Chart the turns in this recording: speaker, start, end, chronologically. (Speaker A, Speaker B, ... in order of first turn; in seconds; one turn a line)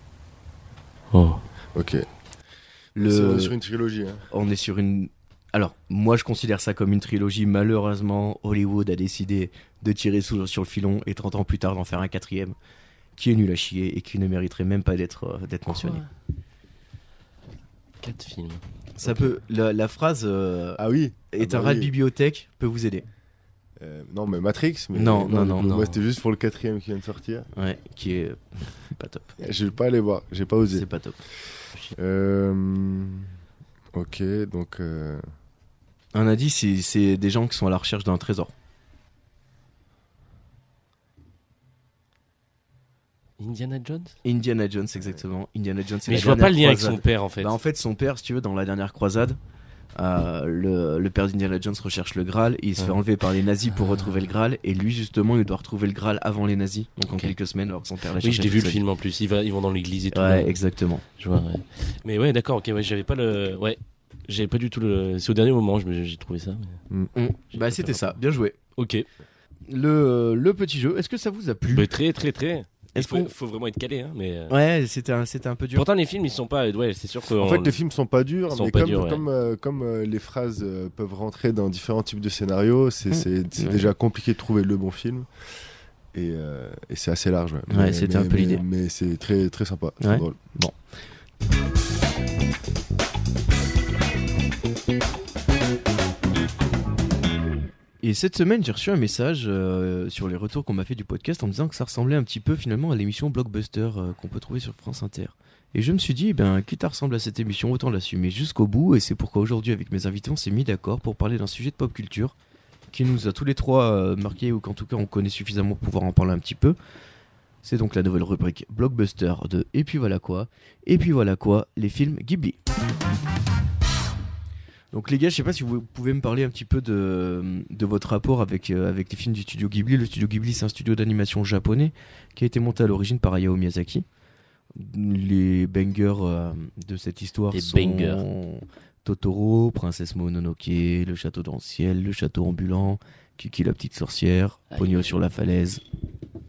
Speaker A: 1.1-1.4
Speaker B: 1.7-2.1
Speaker C: 3.0-3.5
Speaker B: 3.0-4.2
Speaker C: 4.3-12.6
Speaker C: 13.2-16.0
Speaker A: 15.7-16.1
Speaker A: 18.0-18.6
Speaker C: 19.0-23.1
Speaker B: 19.0-19.3
Speaker B: 20.8-21.9
Speaker B: 23.8-27.5
Speaker C: 24.9-25.7
Speaker A: 25.6-26.0
Speaker C: 27.5-29.4
Speaker B: 29.4-30.9
Speaker C: 30.7-31.2
Speaker B: 31.9-33.3
Speaker B: 33.9-35.2
Speaker C: 36.1-38.5
Speaker A: 43.4-44.1
Speaker C: 44.2-49.4
Speaker A: 46.0-47.5
Speaker C: 50.0-58.8
Speaker A: 58.2-60.6
Speaker C: 60.1-61.0
Speaker A: 61.2-66.8
Speaker C: 67.1-68.6
Speaker A: 67.5-68.2
Speaker A: 68.8-69.1
Speaker C: 69.7-71.9
Speaker A: 71.7-74.5
Speaker C: 73.0-73.3
Speaker C: 74.5-75.8
Speaker A: 75.7-77.8
Speaker B: 77.4-85.3
Speaker A: 78.5-79.2
Speaker C: 83.1-83.8
Speaker B: 86.1-90.4
Speaker C: 87.7-88.6
Speaker C: 90.0-90.8
Speaker C: 98.0-112.3
Speaker C: 112.9-116.8
Speaker C: 117.6-122.6
Speaker C: 124.9-134.1
Speaker C: 134.7-145.8
Speaker A: 137.5-138.2
Speaker A: 144.7-145.1